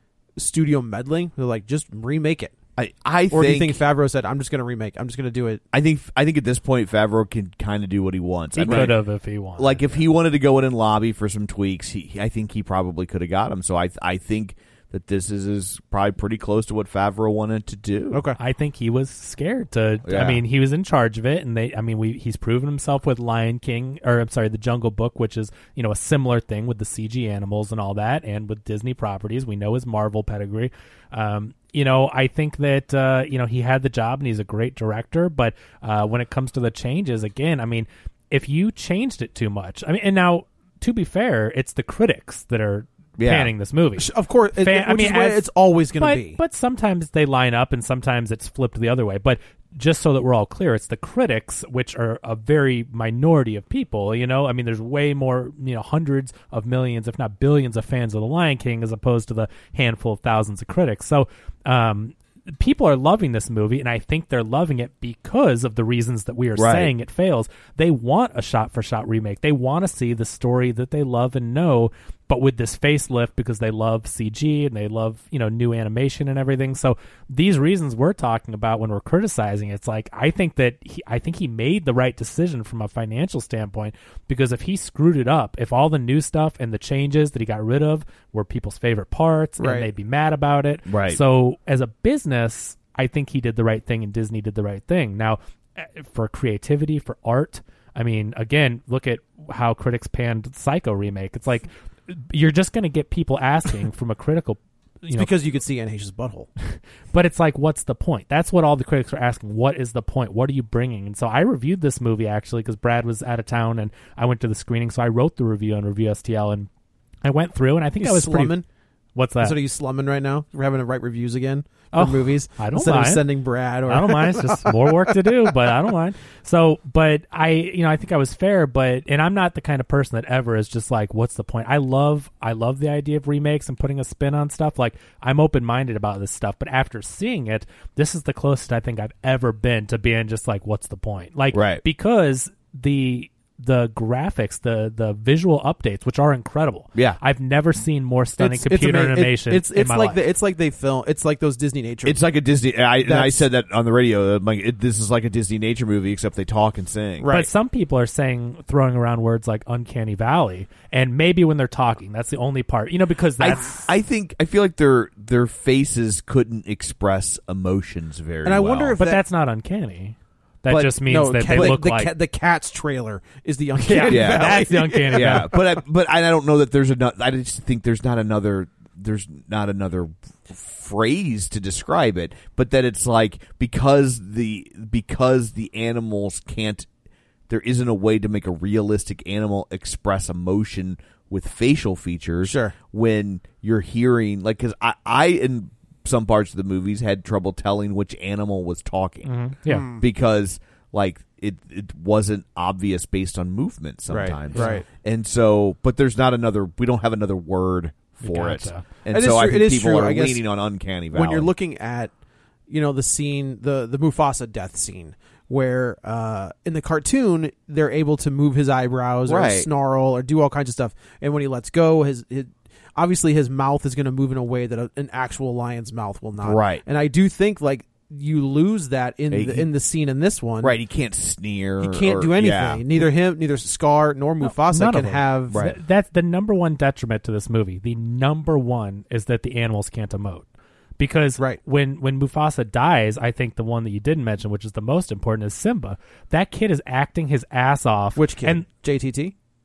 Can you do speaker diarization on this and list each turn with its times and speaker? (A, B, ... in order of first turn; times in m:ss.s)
0:00.4-0:02.6 A
0:02.8-0:03.8 B
0:03.3-0:05.6 A
0:05.7-0:09.0 B
0:08.6-0:09.9 C
0:08.7-0:08.9 A
0:09.6-0:18.2 B
0:18.1-0:18.4 A
0:18.4-1:45.3 C
0:20.0-0:20.4 B
0:43.2-0:43.5 B
0:44.0-0:46.4 A
1:06.6-1:06.9 B
1:29.6-1:29.9 A
1:30.9-1:31.2 B
1:45.1-1:46.5 A
1:46.7-1:56.7 C
1:57.2-1:58.6 C
1:58.0-1:58.6 A
1:59.1-1:59.6 C
1:59.4-2:05.2 A
2:01.9-2:03.2 C
2:03.9-2:30.2 C
2:21.5-2:21.8 B
2:26.9-2:27.2 B
2:28.4-2:32.2 A
2:32.0-2:37.4 B
2:33.0-2:33.4 A
2:37.2-2:37.5 A
2:37.3-2:43.9 C
2:43.4-2:49.0 B
2:48.4-2:49.2 A
2:49.0-2:52.1 C
2:50.7-2:55.6 A
2:51.5-2:51.8 B
2:53.8-2:55.5 C
2:54.0-3:06.9 B
3:07.5-3:19.3 B
3:12.4-3:12.7 A
3:19.2-3:19.9 C
3:19.7-3:20.0 A
3:20.0-3:31.5 B
3:24.1-3:24.9 A
3:24.5-3:24.8 C
3:28.2-3:28.8 C
3:29.1-3:30.4 A
3:31.1-3:32.1 A
3:32.7-3:50.8 A
3:39.2-3:39.7 B
3:46.4-3:46.8 B
3:49.3-3:49.7 B
3:50.6-3:53.0 B
3:51.8-3:55.6 A
3:54.4-4:00.4 C
3:55.5-3:55.8 B
4:01.0-4:08.6 C
4:08.2-4:09.3 A